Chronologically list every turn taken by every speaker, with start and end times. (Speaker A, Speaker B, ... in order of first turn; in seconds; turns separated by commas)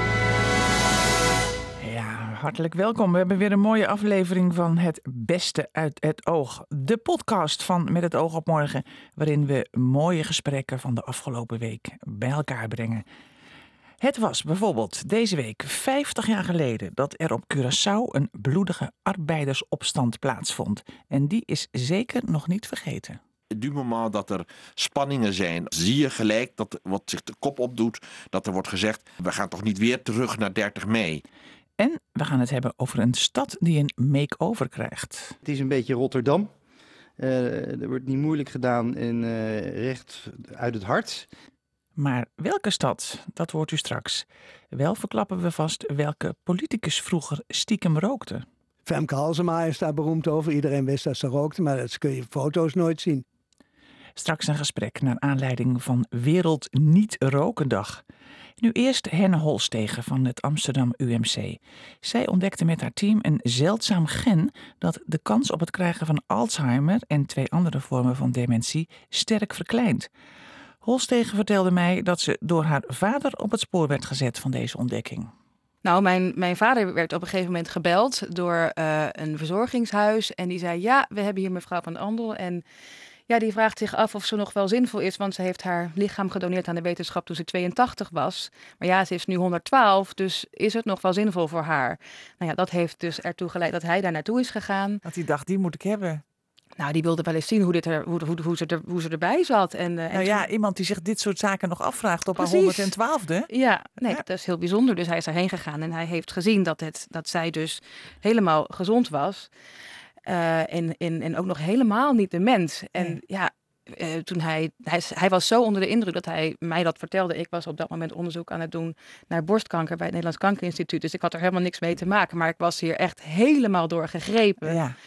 Speaker A: 1.8-13.1, Speaker A: 14.0-23.2, Speaker B: 23.5-31.2, Speaker A: 31.8-35.4, Speaker C: 35.4-36.5, Speaker C: 37.2-41.3, Speaker A: 42.0-48.5, Speaker D: 48.9-53.2, Speaker A: 54.1-58.0, Speaker A: 58.6-70.1, Speaker A: 70.8-75.3, Speaker E: 75.8-82.6, Speaker E: 83.3-95.0, Speaker A: 95.0-96.2, Speaker E: 96.8-100.5, Speaker A: 100.1-103.5, Speaker E: 102.4-102.9, Speaker E: 103.5-109.5, Speaker E: 110.2-124.8, Speaker A: 124.6-125.0